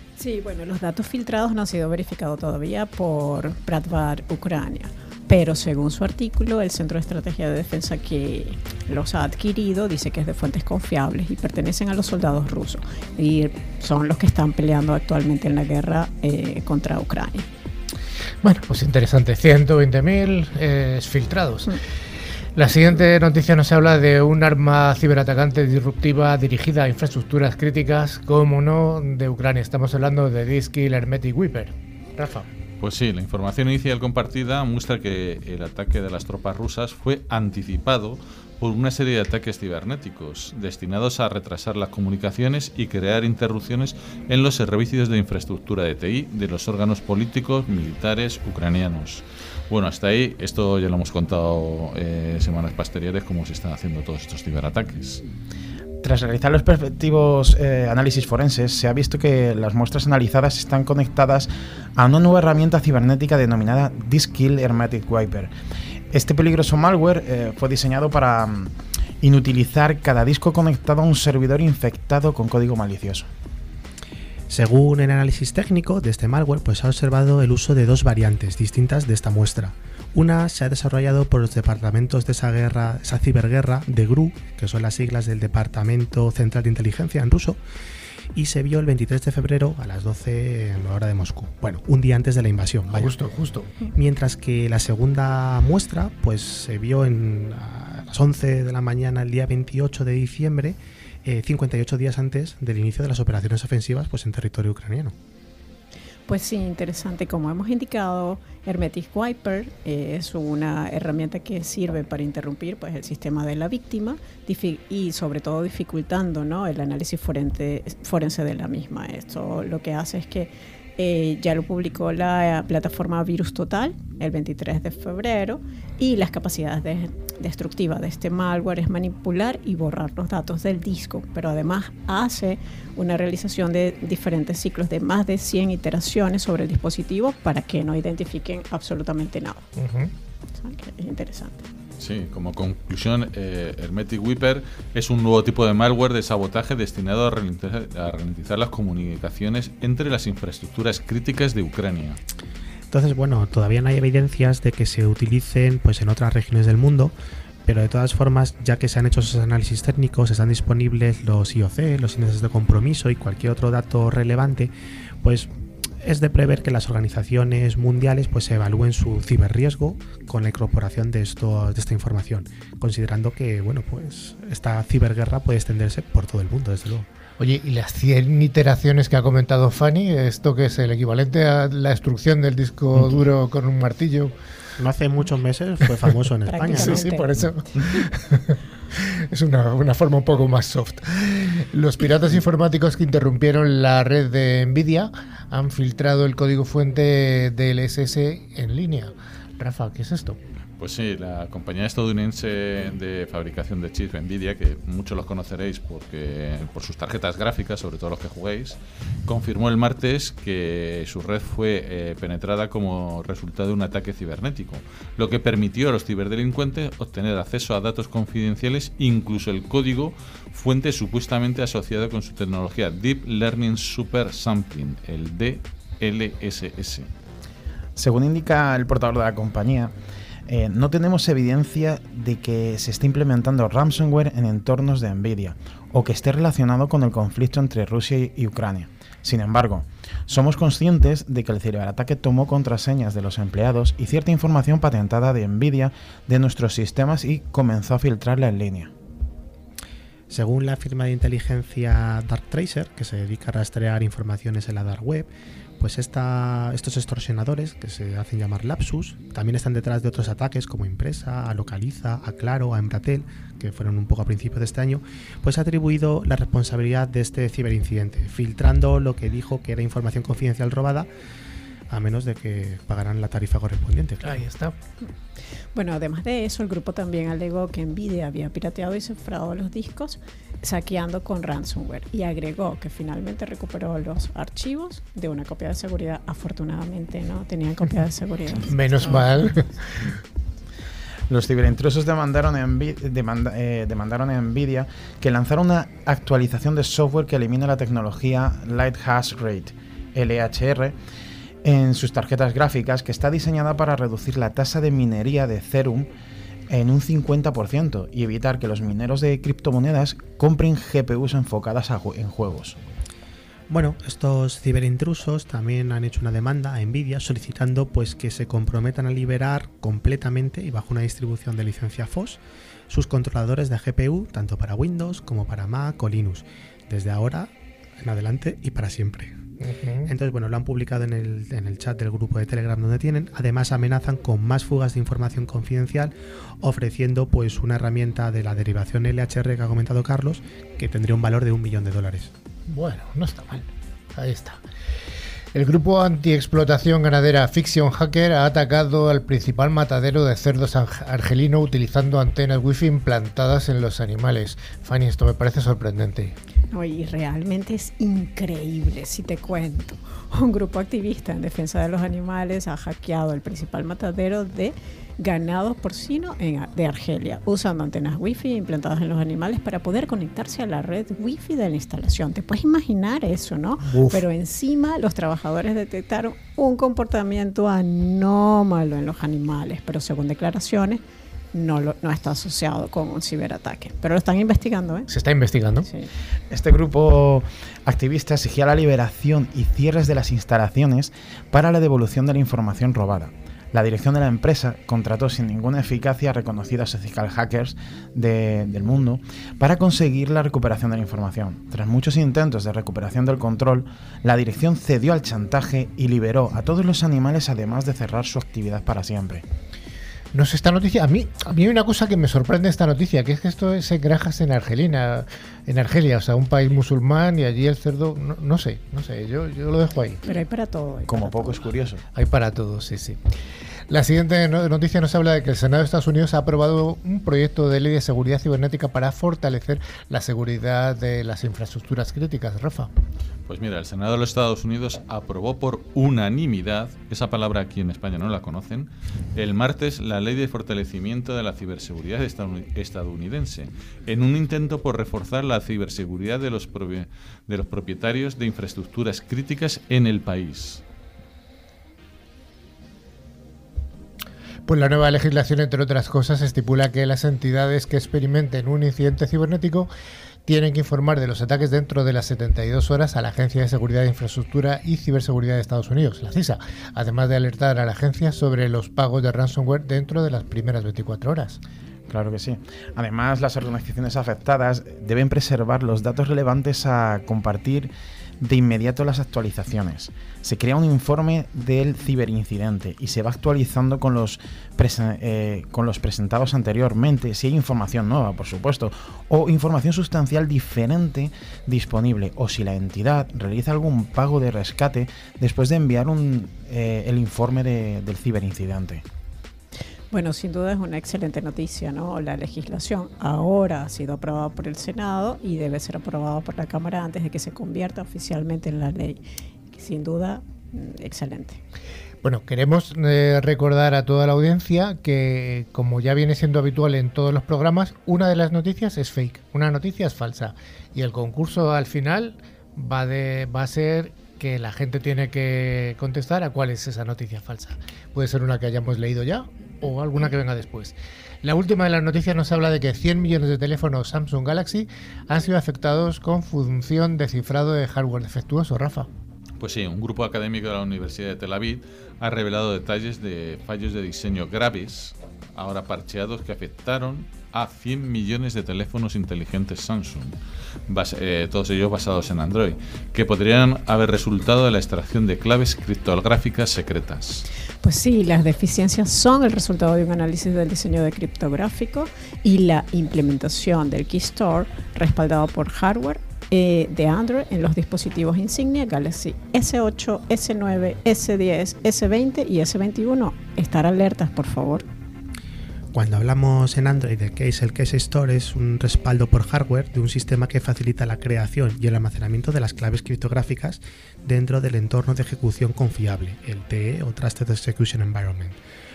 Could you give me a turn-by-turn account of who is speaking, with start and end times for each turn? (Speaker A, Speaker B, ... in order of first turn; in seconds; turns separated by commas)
Speaker A: 0.2-17.5, Speaker B: 18.4-21.8, Speaker B: 22.6-32.5, Speaker C: 32.8-55.2, Speaker D: 56.0-65.5, Speaker D: 66.1-73.3, Speaker E: 74.5-87.6, Speaker E: 88.3-93.1, Speaker B: 92.9-93.7, Speaker E: 93.9-105.2, Speaker A: 106.3-139.7, Speaker B: 139.8-140.1, Speaker A: 140.6-141.7, Speaker C: 142.0-152.2, Speaker E: 152.9-157.1, Speaker E: 157.7-164.7, Speaker E: 165.2-165.5, Speaker E: 166.0-177.1, Speaker B: 177.4-184.3, Speaker E: 184.8-187.1, Speaker A: 186.5-188.1, Speaker B: 186.6-200.4, Speaker C: 200.8-227.1, Speaker D: 227.9-229.9, Speaker D: 230.5-248.9, Speaker E: 250.3-271.1, Speaker E: 271.9-274.4, Speaker B: 274.2-274.7, Speaker A: 275.7-289.1, Speaker B: 288.7-289.7, Speaker D: 291.3-300.9, Speaker D: 301.6-306.1, Speaker D: 306.7-312.8, Speaker E: 313.7-329.4, Speaker B: 329.6-330.1, Speaker E: 330.1-342.3, Speaker B: 342.7-344.6, Speaker B: 345.5-356.3, Speaker A: 356.7-381.0, Speaker B: 373.8-374.2, Speaker A: 381.5-385.1, Speaker B: 385.1-385.9, Speaker A: 385.8-386.1, Speaker D: 386.5-409.4, Speaker B: 410.3-420.2, Speaker A: 420.2-421.6, Speaker D: 421.1-422.0, Speaker B: 422.1-423.2, Speaker B: 423.9-432.9, Speaker C: 433.5-450.8, Speaker B: 454.7-459.9, Speaker B: 460.4-471.6, Speaker D: 472.1-499.0, Speaker A: 500.1-509.2, Speaker A: 509.7-511.6, Speaker B: 512.2-539.1, Speaker C: 539.6-550.4, Speaker C: 550.9-557.4, Speaker A: 557.8-574.9, Speaker E: 575.9-588.6